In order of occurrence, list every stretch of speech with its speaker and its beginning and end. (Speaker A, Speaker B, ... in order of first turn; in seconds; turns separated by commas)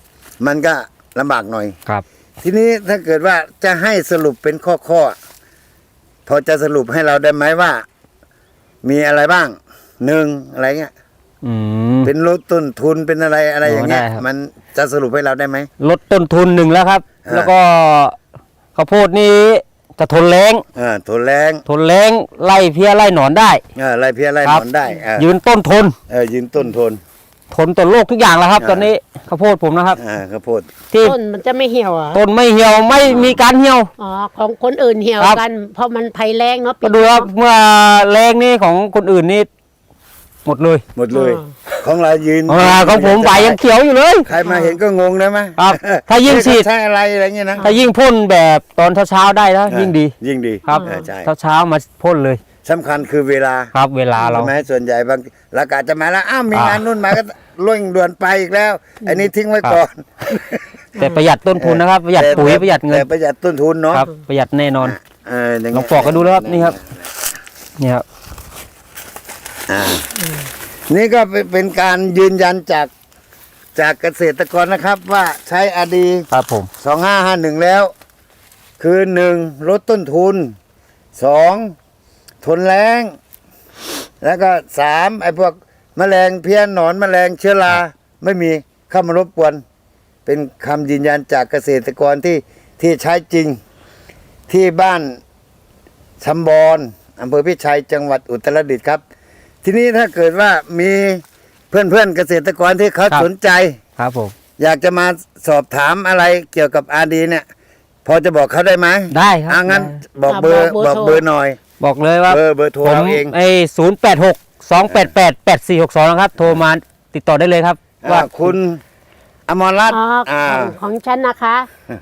Speaker A: 0.4-1.8, Speaker A: 2.4-5.2, Speaker A: 6.3-7.8, Speaker A: 8.8-10.9, Speaker B: 11.4-12.1, Speaker A: 12.0-15.7, Speaker B: 13.6-14.2, Speaker B: 15.8-18.2, Speaker A: 17.2-17.5, Speaker B: 18.8-20.6, Speaker A: 20.8-21.6, Speaker B: 21.7-23.6, Speaker A: 23.8-25.3, Speaker B: 24.4-25.9, Speaker A: 26.1-27.0, Speaker B: 27.5-30.0, Speaker A: 28.6-28.9, Speaker A: 30.0-30.7, Speaker C: 31.0-32.2, Speaker B: 32.1-33.9, Speaker C: 33.0-33.3, Speaker A: 33.1-33.4, Speaker C: 34.0-37.3, Speaker B: 36.8-39.5, Speaker B: 40.5-40.8, Speaker A: 41.0-43.6, Speaker C: 41.1-41.5, Speaker B: 42.5-44.3, Speaker A: 44.3-47.7, Speaker C: 44.5-44.8, Speaker B: 45.6-46.7, Speaker B: 47.6-50.1, Speaker A: 49.7-51.3, Speaker B: 50.7-52.4, Speaker C: 50.7-51.0, Speaker A: 52.6-60.8, Speaker B: 53.7-54.5, Speaker B: 56.5-57.1, Speaker C: 61.0-61.3, Speaker B: 61.0-63.1, Speaker A: 61.6-64.1, Speaker B: 63.9-65.0, Speaker A: 64.8-67.1, Speaker B: 65.7-66.8, Speaker A: 69.7-70.1, Speaker C: 70.2-70.5, Speaker A: 70.9-72.9, Speaker A: 73.8-76.3, Speaker B: 76.3-76.7, Speaker A: 76.8-77.9, Speaker A: 78.8-80.5, Speaker A: 81.2-81.8, Speaker A: 82.4-83.2, Speaker A: 84.2-89.6, Speaker A: 90.3-93.6, Speaker A: 94.5-95.2, Speaker A: 96.2-99.0, Speaker A: 99.6-103.8, Speaker B: 104.0-104.3, Speaker A: 104.6-107.5, Speaker A: 108.0-111.6, Speaker B: 109.1-110.0, Speaker C: 110.3-111.2, Speaker B: 111.8-118.5, Speaker A: 112.3-113.3, Speaker A: 118.0-118.8, Speaker A: 119.5-120.8, Speaker C: 119.9-121.7